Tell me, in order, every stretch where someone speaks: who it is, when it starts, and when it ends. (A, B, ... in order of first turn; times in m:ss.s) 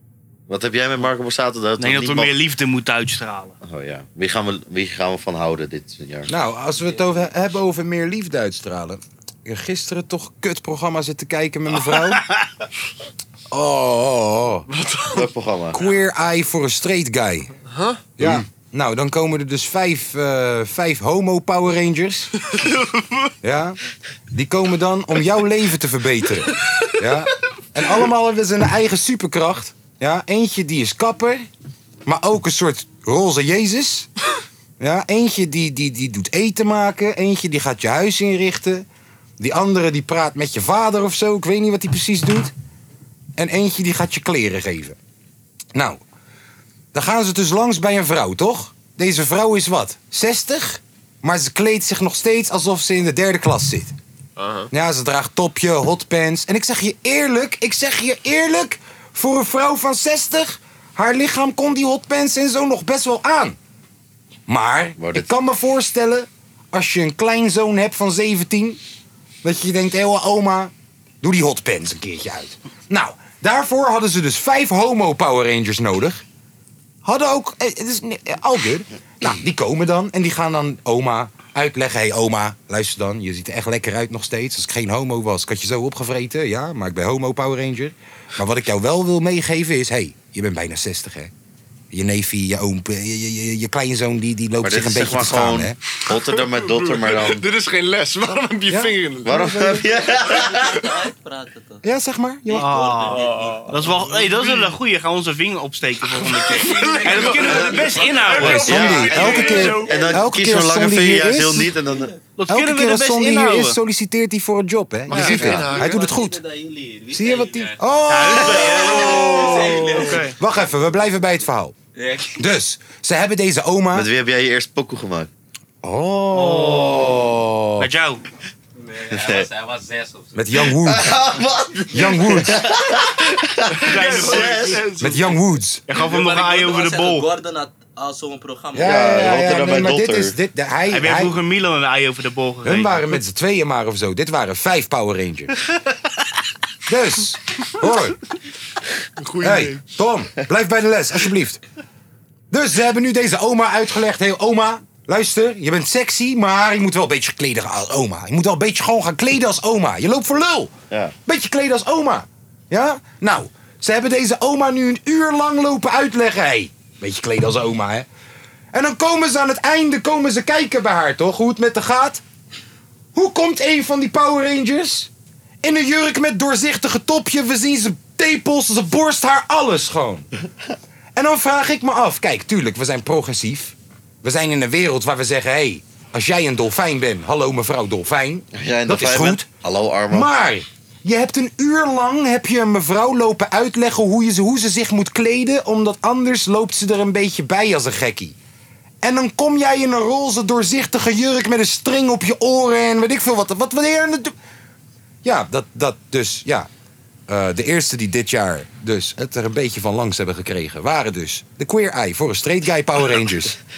0:00.5-0:02.3 A
0:01.8-0:03.6 B
0:03.6-0:06.3 A
0:06.3-0:12.2 C
0:11.9-0:12.5 B
0:13.5-0:14.7 C
0:14.7-0:15.9 D
0:15.1-0:15.8 A
0:15.7-0:17.5 C
0:17.7-0:18.1 D
0:18.2-0:22.3 C
0:22.6-0:23.3 B
0:23.4-0:23.8 C
0:24.3-0:31.5 C
0:32.0-0:34.1 C
0:34.8-0:38.8 C
0:39.4-0:42.5 C
0:43.4-0:45.0 C
0:45.7-0:46.0 C
0:46.9-0:53.9 C
0:54.4-0:54.7 D
0:54.7-1:03.6 C
1:04.5-1:08.8 C
1:05.0-1:05.3 A
1:09.4-1:16.2 C
1:17.0-1:31.3 C
1:31.9-1:35.8 C
1:34.6-1:37.4 A
1:36.1-1:39.6 D
1:38.7-1:40.0 C
1:39.2-1:40.9 A
1:39.9-1:41.8 E
1:41.8-1:42.6 C
1:42.5-1:44.3 E
1:42.5-1:49.8 B
1:43.1-1:44.6 D
1:46.4-1:49.6 E
1:46.5-1:50.1 D
1:48.4-1:51.7 C
1:48.6-1:52.1 A
1:51.8-1:52.2 E
1:52.4-1:53.8 B
1:52.5-1:56.4 C
1:55.1-1:56.0 D
1:55.1-2:00.3 E
1:57.1-2:01.7 C
1:58.1-2:00.4 B
2:01.9-2:02.4 E
2:02.4-2:04.1 C
2:03.9-2:05.3 A
2:05.8-2:07.9 C
2:06.3-2:07.2 B
2:07.8-2:08.2 B
2:08.8-2:10.4 E
2:09.1-2:09.5 A
2:10.3-2:11.2 C
2:10.8-2:14.9 A
2:11.9-2:12.7 C
2:13.8-2:15.2 B
2:14.0-2:14.8 D
2:15.0-2:15.8 C
2:15.9-2:17.3 B
2:15.9-2:19.6 E
2:18.7-2:21.4 C
2:18.8-2:20.3 A
2:20.9-2:23.1 B
2:22.6-2:25.5 C
2:26.9-2:28.2 C
2:29.2-2:29.8 D
2:29.4-2:31.6 C
2:32.5-2:40.7 C
2:41.2-2:48.1 C
2:48.7-2:52.2 C
2:53.1-2:55.1 C
2:55.6-3:00.3 C
3:01.2-3:09.4 C
3:08.5-3:10.3 A
3:10.1-3:18.4 C
3:19.0-3:24.3 C
3:25.2-3:26.7 C
3:27.3-3:33.6 C